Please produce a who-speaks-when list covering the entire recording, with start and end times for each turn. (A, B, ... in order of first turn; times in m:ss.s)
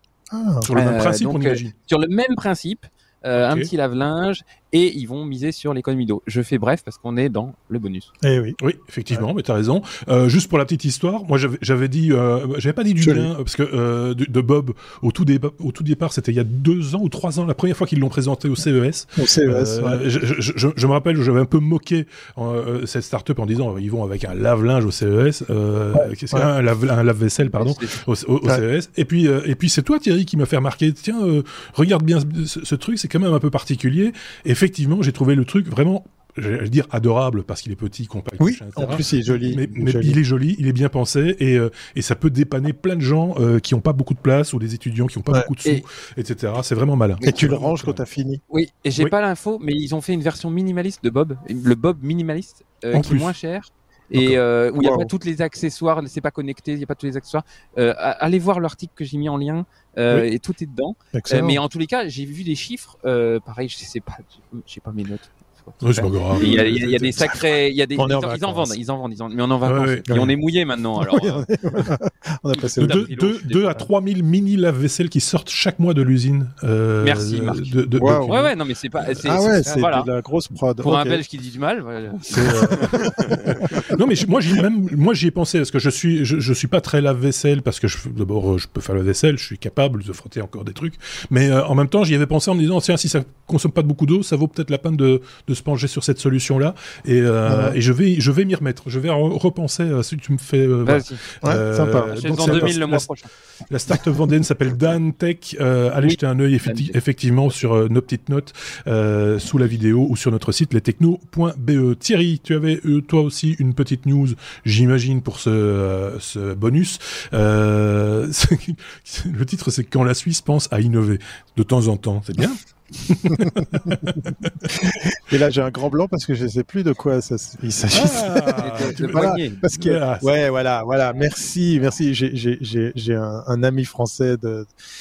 0:00.3-0:00.7 A
0:00.6-0:01.7 B
0:00.7-0:08.1 C
0:03.4-0:03.7 B
0:08.2-0:08.6 A
0:08.6-0:48.0 B
0:13.0-0:13.3 A
0:19.2-0:20.0 A
0:25.9-0:26.5 A
0:27.4-0:28.0 C
0:38.4-0:40.2 A
0:47.2-0:48.4 A
0:48.5-1:11.5 C
0:52.9-0:53.4 B
0:54.8-0:55.1 A
1:01.1-1:01.6 A
1:05.8-1:07.2 B
1:06.4-1:06.7 A
1:08.0-1:08.8 A
1:09.6-1:10.1 B
1:10.1-1:10.4 A
1:11.0-1:13.0 A
1:12.8-1:13.9 C
1:12.8-1:18.4 B
1:17.0-1:17.7 C
1:17.9-1:18.5 A
1:18.3-1:20.1 C
1:19.2-1:21.2 A
1:20.8-1:23.6 C
1:22.3-1:43.1 B
1:37.5-1:37.8 A
1:40.8-1:41.2 C
1:41.4-1:42.8 A
1:42.1-1:43.3 C
1:43.7-2:04.6 B
1:46.0-1:47.0 C
2:04.7-2:14.7 A
2:07.9-2:10.3 B
2:08.6-2:09.6 C